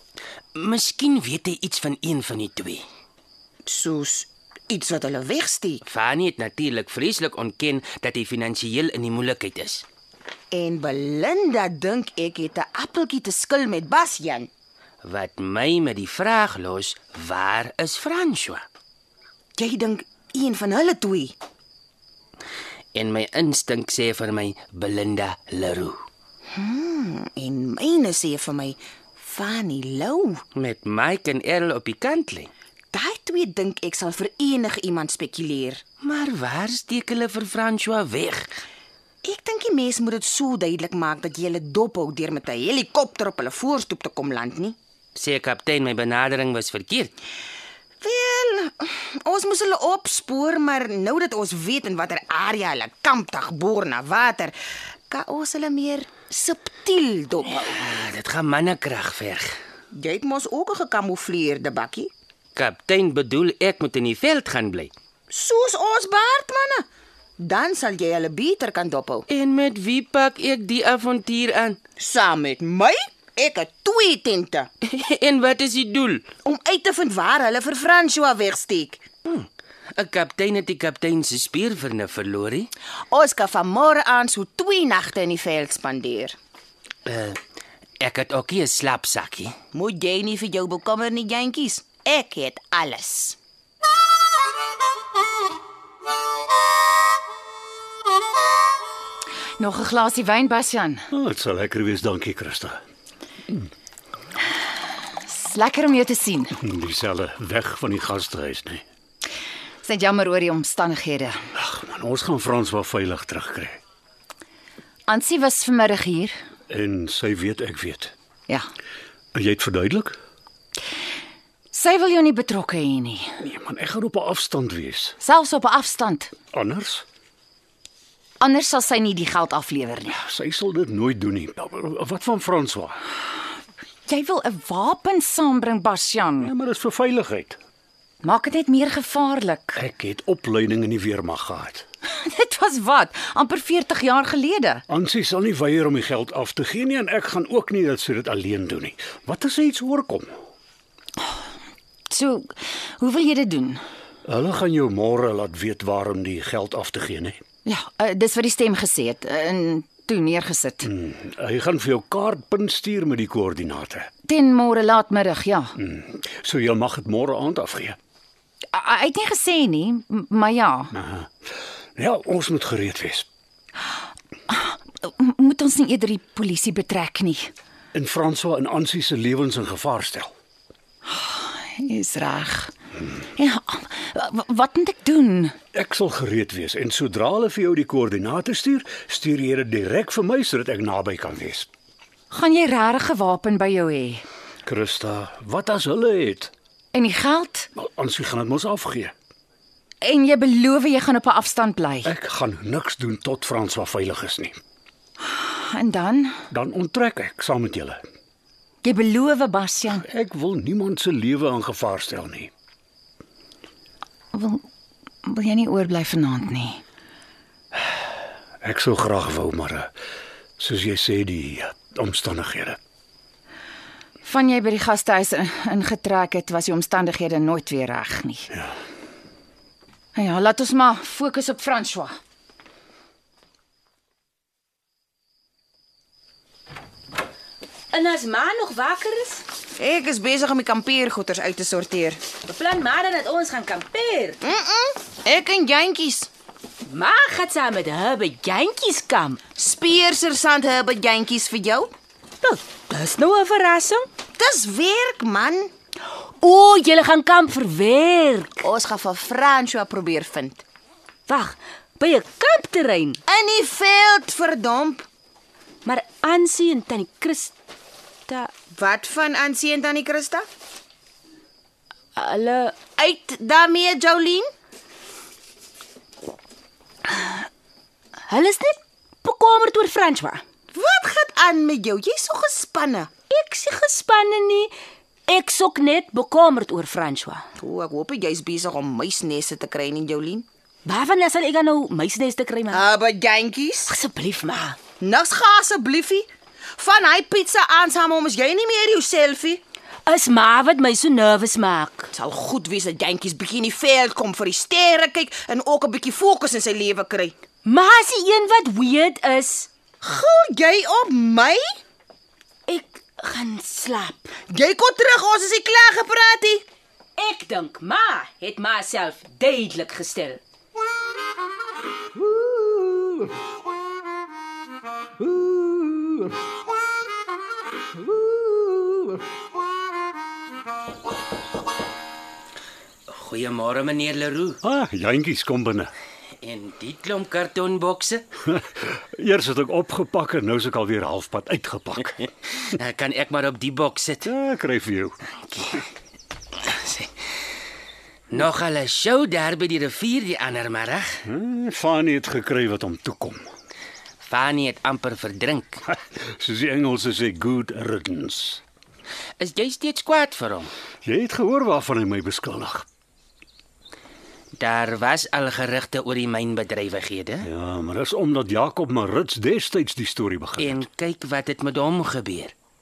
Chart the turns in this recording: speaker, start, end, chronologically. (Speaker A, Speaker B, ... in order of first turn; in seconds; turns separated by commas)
Speaker A: 0.6-2.8, Speaker B: 3.7-5.8, Speaker A: 5.8-9.8, Speaker B: 10.5-14.5, Speaker A: 15.0-18.6, Speaker B: 19.6-21.4, Speaker A: 22.9-26.0, Speaker B: 26.5-30.4, Speaker A: 30.6-32.5, Speaker B: 32.9-35.8, Speaker A: 36.0-38.5, Speaker B: 39.2-44.8, Speaker A: 45.1-47.1, Speaker B: 48.0-54.5, Speaker B: 55.1-57.7, Speaker A: 57.5-59.5, Speaker B: 59.9-62.1, Speaker A: 62.6-64.9, Speaker B: 65.3-66.8, Speaker B: 67.4-69.3, Speaker A: 69.3-71.8, Speaker B: 72.0-74.7, Speaker A: 74.8-76.3, Speaker B: 76.5-79.0, Speaker A: 79.2-82.7, Speaker B: 83.1-86.4, Speaker A: 87.1-87.4, Speaker A: 88.0-89.5, Speaker B: 89.7-93.4, Speaker C: 99.6-101.1, Speaker D: 101.1-102.8, Speaker C: 105.1-106.6, Speaker D: 106.6-108.8, Speaker C: 109.8-111.4, Speaker D: 111.5-113.8, Speaker C: 115.1-116.3, Speaker D: 116.7-118.1, Speaker D: 119.3-120.2, Speaker C: 121.7-123.3, Speaker D: 123.4-125.2, Speaker C: 125.2-126.3, Speaker D: 126.5-127.0, Speaker C: 128.4-130.2, Speaker D: 130.1-133.0, Speaker C: 134.1-136.5, Speaker D: 136.4-137.6, Speaker C: 138.2-139.8, Speaker D: 139.8-141.8, Speaker C: 142.1-144.8, Speaker D: 144.9-150.4, Speaker C: 152.1-153.8, Speaker D: 154.3-157.4, Speaker C: 157.7-160.9, Speaker D: 160.8-164.1, Speaker C: 164.2-165.8, Speaker D: 165.8-168.0, Speaker C: 168.7-170.9, Speaker D: 170.9-171.3, Speaker D: 172.0-173.3, Speaker C: 174.5-177.5, Speaker D: 177.9-180.3, Speaker C: 181.1-182.7, Speaker C: 183.3-185.6, Speaker D: 185.7-191.7, Speaker C: 192.3-194.2, Speaker D: 194.7-196.5, Speaker C: 196.9-197.7, Speaker D: 197.8-199.1, Speaker C: 200.0-202.1, Speaker D: 202.1-204.6, Speaker C: 205.3-206.4, Speaker D: 206.5-208.1, Speaker C: 208.8-210.1, Speaker D: 209.9-212.5, Speaker C: 214.3-214.7, Speaker C: 215.2-216.8, Speaker D: 218.6-219.9, Speaker D: 220.6-222.8, Speaker C: 224.2-228.5, Speaker C: 230.2-232.2, Speaker E: 237.9-239.4, Speaker B: 239.8-242.2, Speaker E: 242.4-244.4, Speaker B: 244.4-246.3, Speaker E: 246.9-249.4, Speaker B: 249.6-251.9, Speaker E: 252.4-254.1, Speaker B: 254.4-255.7, Speaker E: 256.4-258.7, Speaker B: 258.6-260.6, Speaker E: 261.3-263.2, Speaker B: 263.3-265.1, Speaker E: 265.9-267.5, Speaker B: 268.8-270.5, Speaker E: 272.2-272.9, Speaker B: 272.9-274.5, Speaker E: 277.1-277.4, Speaker E: 278.3-280.4, Speaker B: 280.7-283.1, Speaker E: 283.3-284.7, Speaker E: 285.3-287.4, Speaker B: 287.6-290.5, Speaker E: 290.9-292.8, Speaker B: 292.7-293.9, Speaker E: 293.9-294.8, Speaker B: 295.0-299.6, Speaker E: 300.1-302.1, Speaker B: 302.1-307.4, Speaker E: 307.6-309.7, Speaker B: 310.0-311.7, Speaker E: 312.7-314.3, Speaker B: 314.5-316.6, Speaker E: 317.2-320.4, Speaker A: 333.1-334.6, Speaker D: 334.6-335.9, Speaker A: 336.4-338.2, Speaker D: 338.5-342.3, Speaker A: 342.6-344.3, Speaker D: 344.2-345.2, Speaker A: 345.6-345.8, Speaker A: 346.6-347.1, Speaker A: 348.3-351.2, Speaker D: 351.3-353.5, Speaker A: 354.3-355.8, Speaker D: 356.2-358.6, Speaker A: 359.4-360.7, Speaker D: 361.1-362.9, Speaker A: 364.6-367.5, Speaker D: 367.4-370.8, Speaker A: 370.6-372.5